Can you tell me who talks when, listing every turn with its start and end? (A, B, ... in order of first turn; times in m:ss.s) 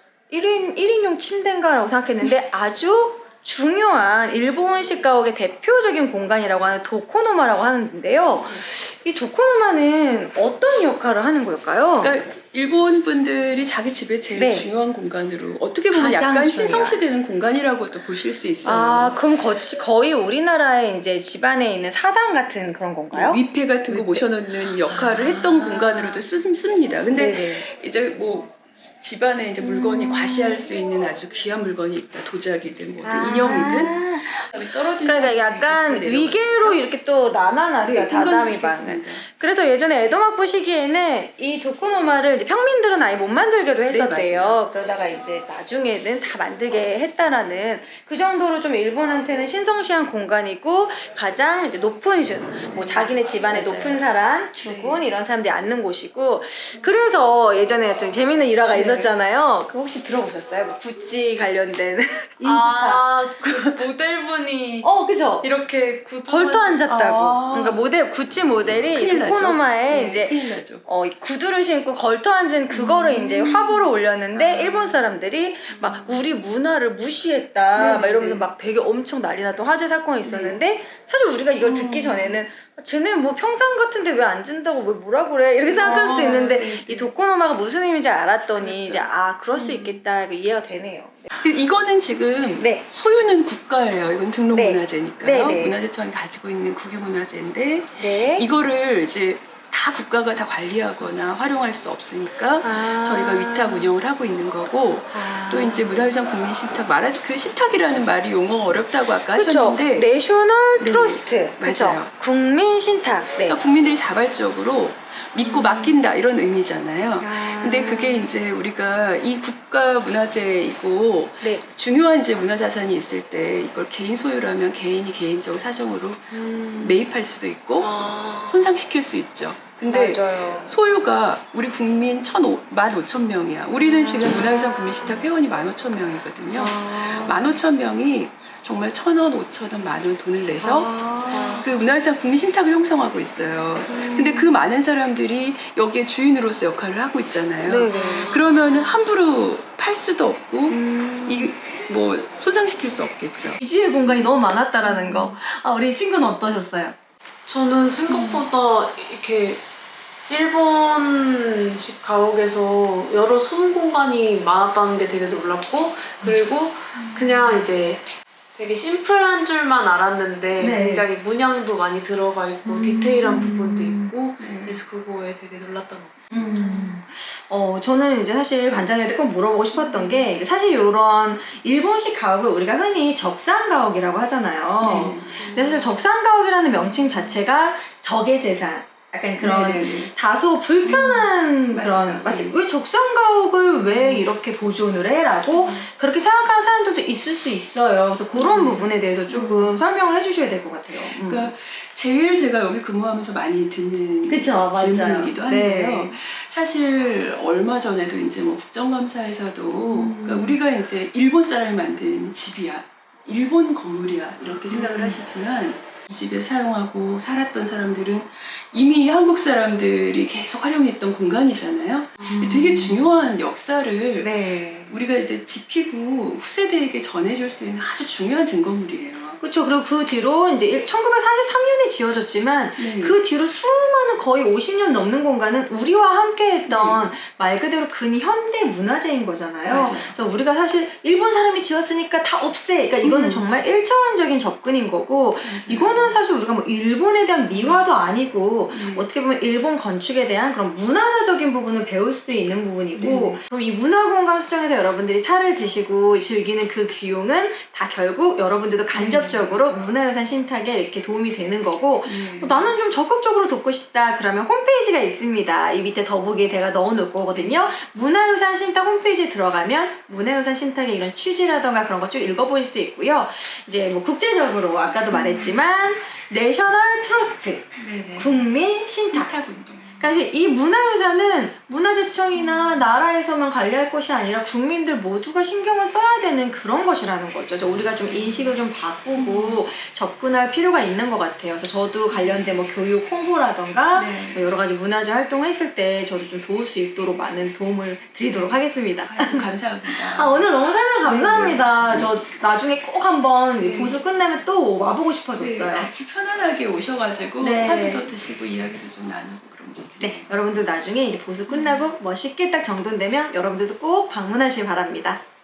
0:00.3-0:12.2 A
0:08.4-0:08.6 B
0:12.0-0:19.2 B
0:14.3-0:14.7 A
0:15.9-0:17.0 A
0:18.6-0:24.2 A
0:23.1-0:36.8 B
0:24.9-0:26.2 A
0:27.1-0:27.6 A
0:29.6-0:30.6 A
0:33.0-1:03.8 A
0:37.8-0:39.2 B
0:43.9-0:44.6 B
0:52.7-0:54.0 B
0:54.6-0:55.0 B
0:58.7-0:59.1 B
1:02.4-1:04.9 C
1:04.8-1:05.5 A
1:05.4-1:06.9 C
1:06.3-1:31.3 A
1:06.9-1:07.8 B
1:08.8-1:10.8 B
1:12.7-1:15.1 B
1:15.7-1:16.2 B
1:17.7-1:18.5 B
1:20.2-1:20.6 B
1:21.6-1:22.4 B
1:25.6-1:27.1 B
1:28.6-1:30.0 B
1:31.3-1:50.1 B
1:32.6-1:32.8 A
1:34.5-1:35.8 A
1:38.0-1:38.5 A
1:42.6-1:43.9 A
1:45.1-1:46.1 A
1:49.3-1:53.6 A
1:50.8-1:52.1 B
1:53.4-2:20.9 B
1:55.4-1:56.0 A
1:57.2-1:58.3 A
2:06.4-2:06.7 C
2:06.5-2:06.9 A
2:07.8-2:08.6 C
2:09.8-2:10.8 A
2:13.8-2:14.5 A
2:14.1-2:15.0 C
2:16.6-2:16.9 A
2:16.6-2:17.3 C
2:20.6-2:21.7 A
2:21.3-2:21.7 C
2:21.6-2:34.2 B
2:23.9-2:24.5 A
2:27.6-2:28.4 A
2:27.9-2:28.4 C
2:30.7-2:31.5 A
2:33.6-2:37.0 A
2:34.8-2:35.3 B
2:37.5-2:39.6 C
2:38.1-2:38.4 A
2:40.3-2:57.0 C
2:47.0-2:47.6 A
2:50.6-2:51.1 A
2:52.6-2:54.1 A
2:54.4-2:54.8 B
2:56.3-3:21.5 A
3:04.8-3:05.5 B
3:05.4-3:05.9 C
3:09.4-3:10.1 B
3:10.8-3:12.6 B
3:13.9-3:14.3 B
3:15.5-3:15.9 B
3:18.4-3:19.8 B
3:21.0-3:49.4 B
3:24.3-3:26.2 A
3:29.9-3:30.6 A
3:34.7-3:35.2 A
3:42.2-3:43.0 A
3:44.2-3:45.0 A
3:49.4-4:39.3 A
3:52.8-3:53.2 B
3:56.6-3:57.0 B
3:59.6-4:00.2 B
4:03.0-4:03.4 B
4:05.4-4:06.2 B
4:07.5-4:07.8 B
4:08.7-4:09.1 B
4:13.0-4:13.4 B
4:18.9-4:19.8 B
4:22.0-4:22.8 B
4:27.3-4:27.7 B
4:35.1-4:35.6 B
4:37.7-4:38.4 B
4:39.1-4:40.2 B
4:40.0-5:05.9 A
4:42.3-4:42.9 B
4:48.0-4:48.6 B
4:49.1-4:49.6 B
4:52.1-4:52.4 B
4:53.9-4:54.4 B
4:59.0-5:00.5 B
5:01.0-5:02.0 B
5:03.6-5:04.0 B
5:05.4-5:10.3 B
5:07.4-5:08.1 A
5:10.0-5:15.2 A
5:11.5-5:11.9 B